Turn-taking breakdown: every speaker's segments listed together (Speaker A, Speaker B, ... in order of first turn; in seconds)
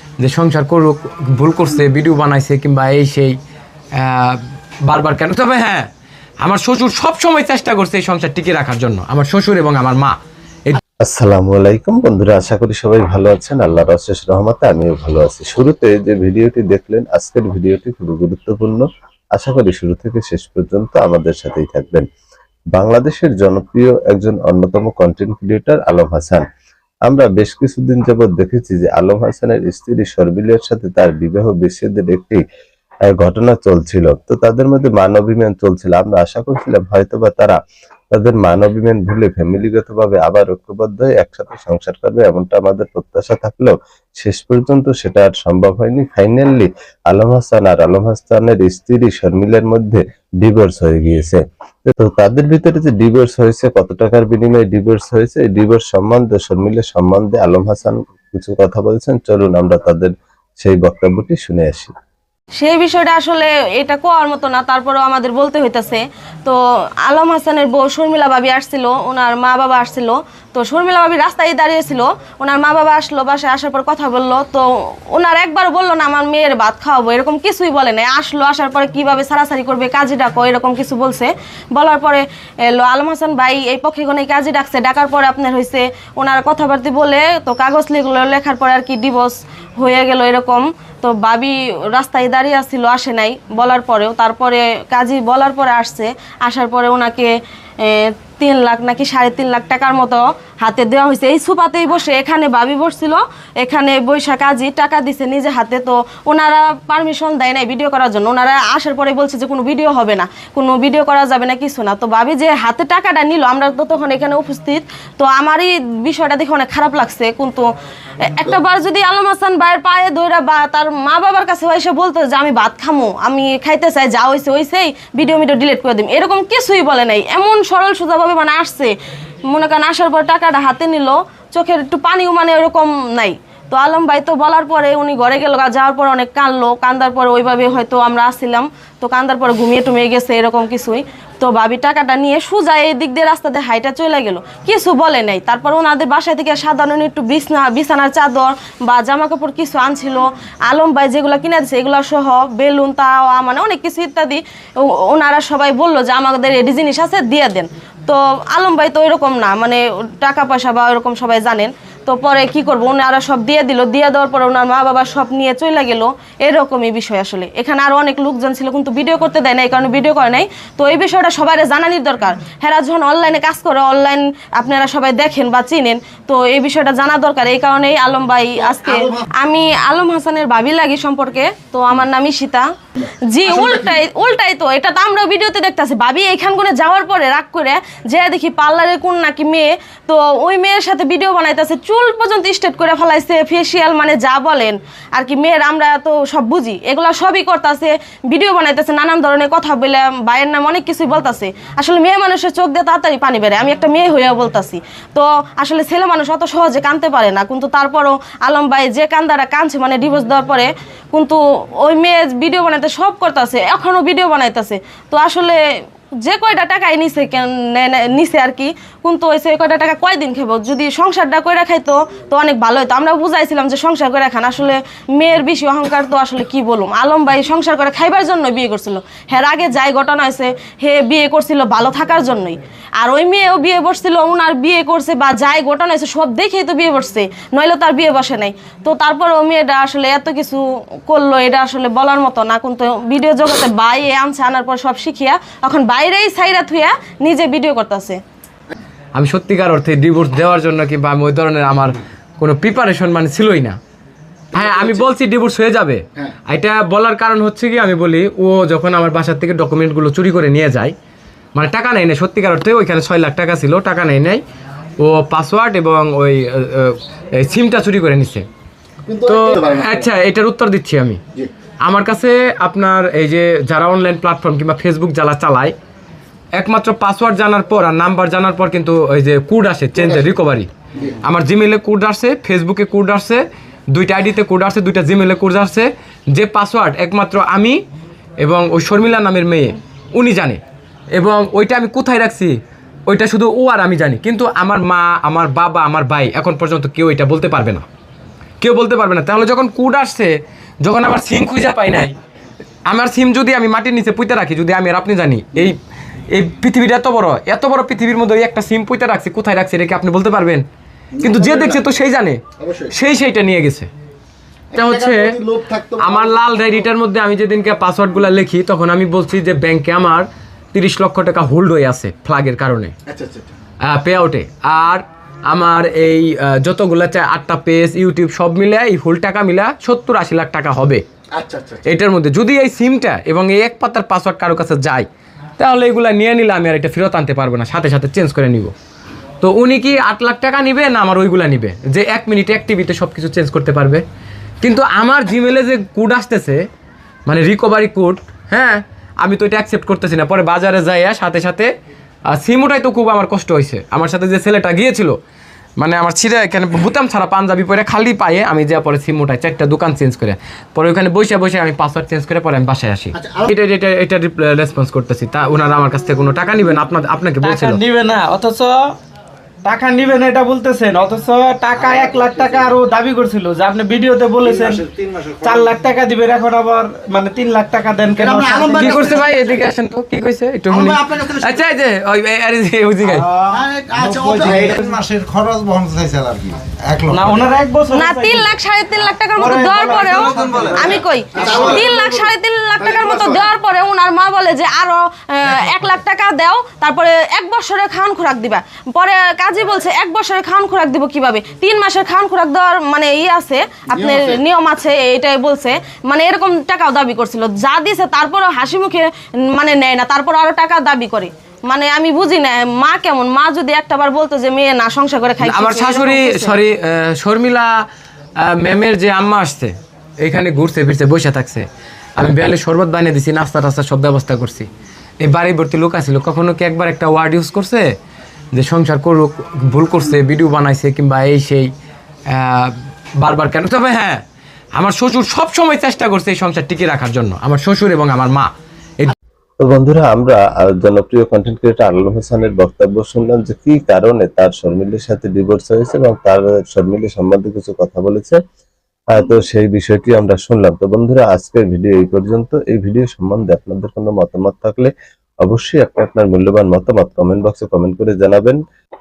Speaker A: 0.2-3.4, 4.0-5.9, 6.4-10.8, 249.1-253.8, 254.5-260.9, 261.5-264.4, 265.0-268.4, 269.2-271.2, 271.8-275.7, 276.6-280.7, 281.2-287.8, 288.4-290.6, 291.1-297.8, 298.6-302.1, 302.9-305.8, 306.3-310.6, 311.2-313.9, 314.7-322.9, 323.9-331.0, 331.9-335.1, 335.6-338.7, 339.4-344.0, 344.6-346.6, 347.3-351.7, 352.3-355.1, 355.8-367.8, 378.7-383.3, 415.4-417.7, 418.4-421.7, 422.2-424.7, 425.2-427.9, 428.5-431.7, 432.3-434.2, 434.7-438.5
Speaker B: 11.0-22.1, 22.7-26.4, 27.1-32.4, 33.1-37.6, 38.1-61.9, 439.6-448.4, 449.1-454.9, 455.4-458.6
Speaker C: 62.6-117.7, 118.2-128.9, 129.5-182.7, 183.3-215.6, 216.2-248.2, 387.9-416.6
Speaker D: 178.7-179.2, 183.5-183.9, 254.5-255.0, 269.1-270.1, 279.9-280.3, 311.1-311.8, 312.6-312.9, 314.7-316.7, 323.1-323.5, 331.3-331.8, 363.1-363.5, 371.8-372.8, 378.2-379.4, 380.7-381.6, 383.4-384.8, 390.5-393.5, 403.9-404.4
Speaker E: 367.4-368.9, 369.6-374.8, 375.4-379.2, 384.6-385.0, 387.1-388.5, 389.4-390.9
Speaker F: 374.7-375.7, 384.0-387.4, 390.3-390.7, 391.4-391.8